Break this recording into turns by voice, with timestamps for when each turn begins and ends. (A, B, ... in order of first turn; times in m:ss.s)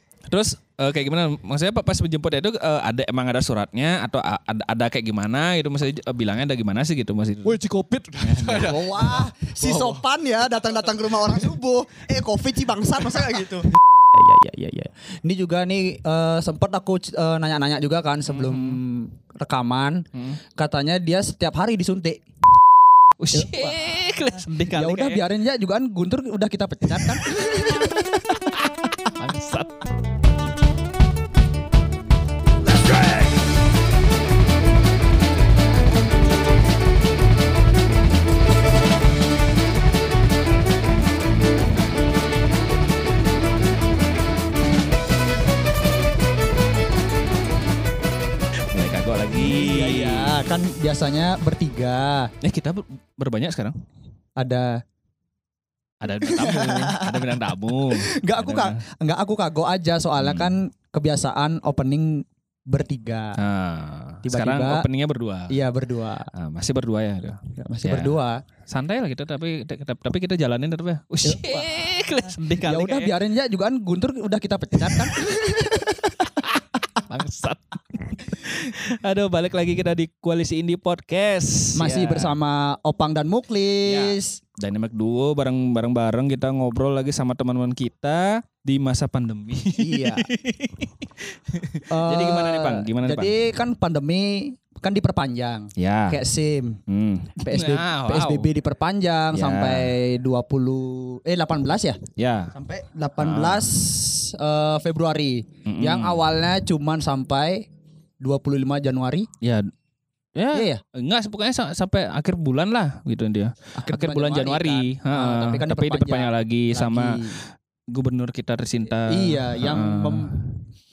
0:00.3-0:07.6 A
0:07.4-0:10.0 B
0:08.2-0:08.8 A
0:08.6-0:22.2 C
0:18.3-0:18.8 A
0:23.2-0:25.3 A
0:23.3-0:23.8 C
0:24.7-0:28.5 C
0:26.9-0:28.6 A
0:29.2-0:29.9 A
0:48.7-0:50.4 A
0:49.3-0:52.3 C
0:52.4-0:53.7 A
0:54.4-0:54.8 C
0:56.0-0:58.8 A
0:56.1-1:03.4 C
1:00.2-1:00.5 A
1:03.4-1:05.5 A
1:04.2-1:04.8 C
1:05.5-1:06.3 C
1:06.3-1:08.2 A
1:07.6-1:08.4 C
1:08.7-1:13.1 A
1:11.2-1:11.7 C
1:12.6-1:16.4 C
1:14.9-1:15.4 A
1:17.1-1:22.3 A
1:21.7-1:24.4 C
1:23.8-1:33.3 A
1:29.8-1:30.3 C
1:31.9-1:36.8 C
1:35.8-1:36.2 A
1:36.9-1:38.5 A
1:37.4-1:42.0 C
1:39.3-1:39.9 A
1:42.2-1:42.5 A
1:42.5-1:47.7 C
1:43.2-1:43.7 A
1:45.7-1:46.2 A
1:48.2-1:49.3 C
1:49.4-1:49.7 A
1:50.4-2:00.5 A
1:50.5-1:50.8 C
1:53.8-1:57.4 C
1:59.1-2:00.3 C